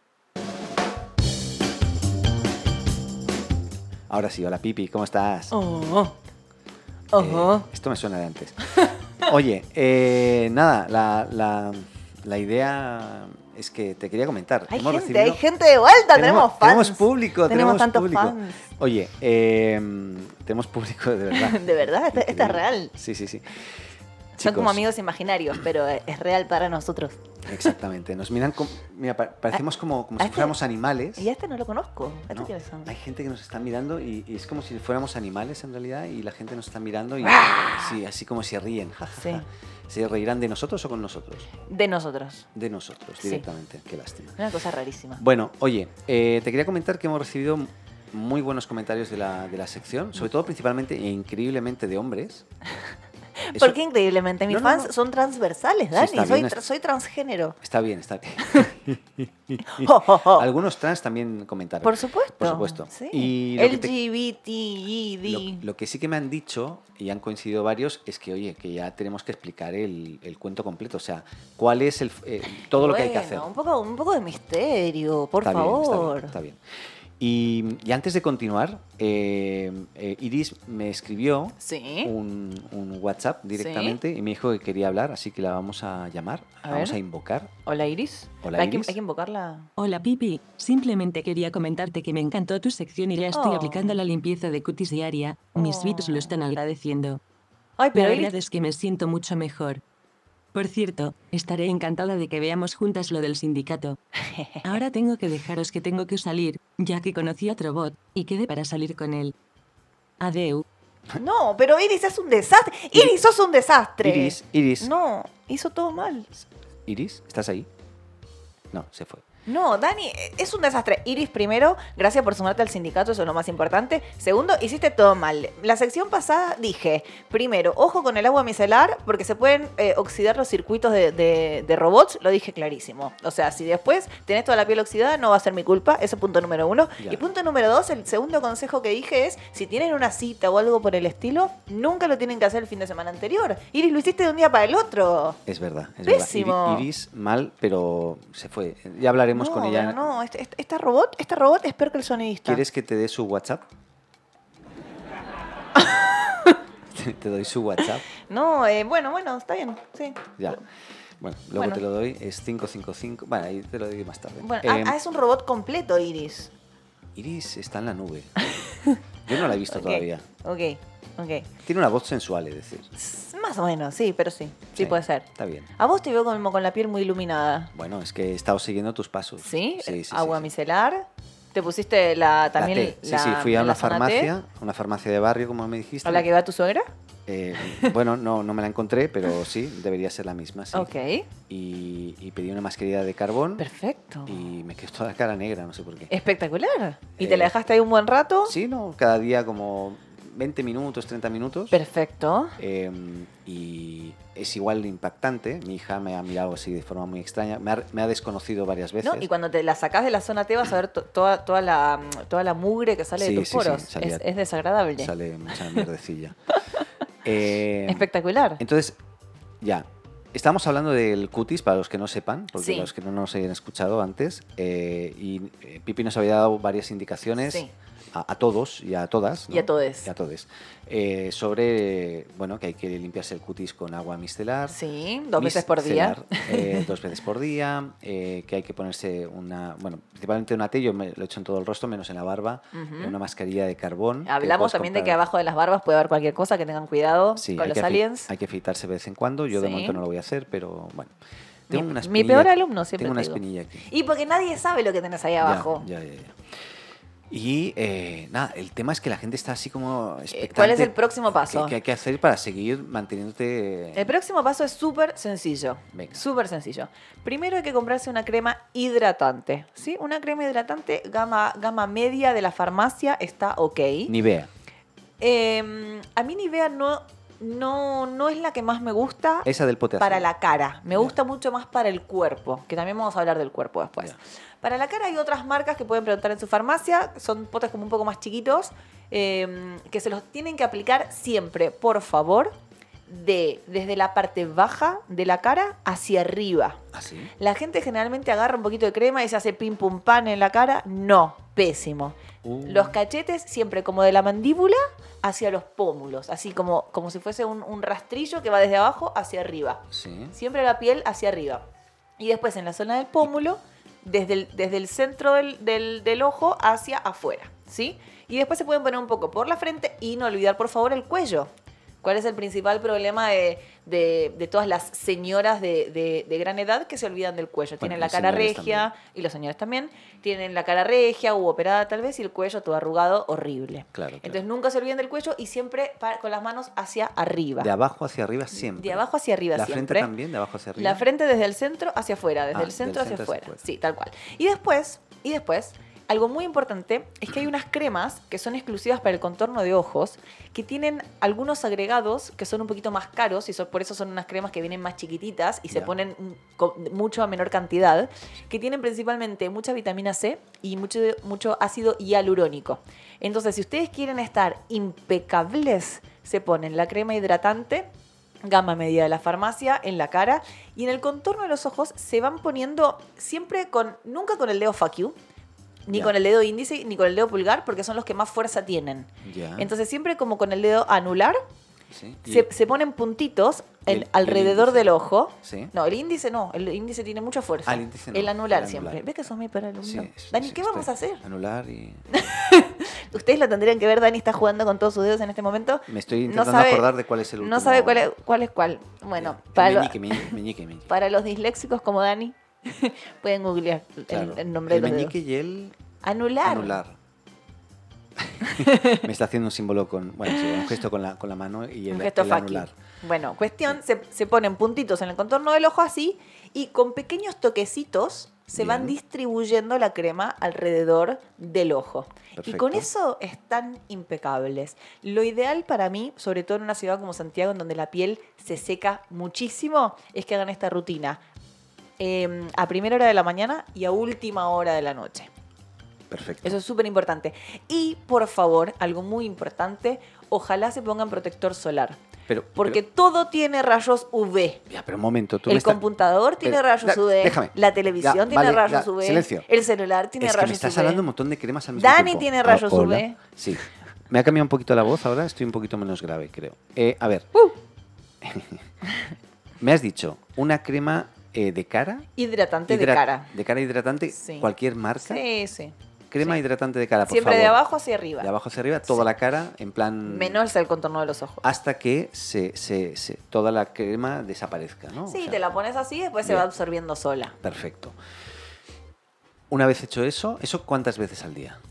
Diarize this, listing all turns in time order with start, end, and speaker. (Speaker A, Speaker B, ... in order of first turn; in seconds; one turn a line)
Speaker A: 4.1-5.5
Speaker B: 5.5-6.2
Speaker B: 7.1-7.6
Speaker A: 7.1-8.6
Speaker A: 9.2-15.4
Speaker B: 14.7-18.6
Speaker A: 16.1-23.8
Speaker B: 21.3-22.9
Speaker A: 24.4-24.8
Speaker B: 24.4-27.7
Speaker A: 27.4-31.3
Speaker B: 30.2-30.5
Speaker B: 31.2-32.9
Speaker A: 32.3-41.5
Speaker B: 37.2-37.9
Speaker B: 39.1-39.5
Speaker B: 41.6-42.5
Speaker A: 42.5-44.4
Speaker B: 43.2-43.5
Speaker B: 44.4-45.2
Speaker A: 45.2-52.4
Speaker B: 53.4-57.6
Speaker A: 53.5-53.8
Speaker A: 54.5-54.9
Speaker A: 55.9-56.6
Speaker A: 57.6-63.9
Speaker B: 59.7-60.5
Speaker B: 61.8-65.6
Speaker A: 65.2-73.5
Speaker B: 72.7-76.3
Speaker A: 75.4-76.6
Speaker A: 77.2-87.5
Speaker B: 81.6-82.1
Speaker B: 83.5-84.0
Speaker B: 86.6-87.0
Speaker B: 87.6-89.7
Speaker A: 88.4-89.0
Speaker C: 89.8-97.2
Speaker B: 93.3-94.0
Speaker B: 95.5-96.4
Speaker B: 97.8-98.3
Speaker C: 97.9-99.8
Speaker C: 100.5-104.0
Speaker B: 104.3-104.8
Speaker C: 104.6-109.3
Speaker C: 110.2-110.6
Speaker B: 111.2-116.3
Speaker A: 114.0-114.9
Speaker A: 116.4-117.7
Speaker A: 118.7-119.2
Speaker B: 119.5-145.4
Speaker A: 145.5-150.1
Speaker B: 146.1-146.8
Speaker B: 149.3-152.6
Speaker A: 152.4-153.6
Speaker B: 155.9-156.6
Speaker A: 156.9-158.0
Speaker B: 158.2-160.3
Speaker A: 160.4-160.6
Speaker A: 161.2-165.0
Speaker B: 161.5-161.8
Speaker B: 164.4-166.5
Speaker A: 167.1-168.3
Speaker A: 169.2-170.3
Speaker B: 169.6-171.5
Speaker A: 171.6-172.9
Speaker B: 173.0-175.2
Speaker A: 174.8-175.7
Speaker B: 175.8-177.7
Speaker A: 177.7-180.5
Speaker B: 179.4-184.3
Speaker A: 182.6-186.3
Speaker B: 186.0-186.9
Speaker A: 187.2-190.9
Speaker B: 187.6-187.9
Speaker B: 190.7-191.3
Speaker A: 191.5-193.7
Speaker B: 193.6-194.4
Speaker A: 194.2-196.1
Speaker B: 196.1-198.5
Speaker A: 197.2-197.5
Speaker A: 198.4-201.8
Speaker B: 201.7-202.6
Speaker A: 202.6-209.3
Speaker B: 209.0-215.1
Speaker A: 213.2-214.2
Speaker A: 215.0-216.5
Speaker A: 217.2-218.1
Speaker B: 217.9-218.6
Speaker A: 218.6-219.0
Speaker A: 219.6-234.8
Speaker B: 222.6-222.9
Speaker B: 229.5-230.1
Speaker B: 234.7-236.9
Speaker A: 235.3-245.2
Speaker B: 242.7-243.2
Speaker B: 244.2-248.3
Speaker A: 247.3-251.1
Speaker B: 249.5-250.0
Speaker A: 251.7-253.8
Speaker B: 251.7-255.9
Speaker A: 255.4-256.4
Speaker A: 257.3-264.1
Speaker B: 260.3-261.7
Speaker B: 263.9-274.1
Speaker A: 265.9-266.2
Speaker A: 274.1-274.5
Speaker B: 275.2-279.5
Speaker A: 279.4-280.3
Speaker B: 280.0-292.5
Speaker A: 280.9-281.1
Speaker B: 293.1-296.8
Speaker A: 296.9-297.3
Speaker B: 297.4-311.6
Speaker A: 302.4-303.0
Speaker A: 309.9-310.3
Speaker B: 312.2-321.5
Speaker B: 322.0-337.7
Speaker A: 327.8-328.9
Speaker A: 333.9-334.4
Speaker A: 337.6-341.0
Speaker B: 338.6-340.1
Speaker B: 340.8-367.9
Speaker A: 342.5-343.6
Speaker B: 368.4-375.1
Speaker B: 375.9-381.4
Speaker A: 375.9-376.1
Speaker A: 379.2-379.7
Speaker A: 381.9-382.5
Speaker B: 382.3-391.2
Speaker A: 383.9-385.7
Speaker A: 387.6-389.0
Speaker A: 389.8-392.0
Speaker B: 392.1-396.8
Speaker A: 395.9-398.1
Speaker B: 397.4-400.4
Speaker A: 399.2-400.9
Speaker B: 400.9-405.1
Speaker A: 404.1-405.7
Speaker B: 406.0-406.8
Speaker A: 406.4-407.0
Speaker A: 408.2-412.7
Speaker B: 408.4-409.0
Speaker B: 411.9-431.2
Speaker A: 418.5-418.9
Speaker A: 422.4-422.9
Speaker B: 432.0-435.3
Speaker A: 436.1-436.6
Speaker B: 436.4-442.0
Speaker A: 442.3-442.8
Speaker B: 442.6-444.6
Speaker A: 444.7-445.8
Speaker B: 445.5-451.0
Speaker A: 446.4-449.5
Speaker A: 450.2-457.3
Speaker B: 451.8-453.2
Speaker A: 458.2-458.6
Speaker A: 459.6-462.1
Speaker B: 462.2-463.3
Speaker A: 462.7-465.2
Speaker B: 464.1-464.5
Speaker B: 465.0-466.4
Speaker A: 466.1-467.6
Speaker B: 467.1-468.3
Speaker A: 468.2-470.4
Speaker B: 470.1-471.4
Speaker A: 471.4-475.4
Speaker B: 475.1-477.4
Speaker A: 477.4-478.0
Speaker A: 479.5-481.6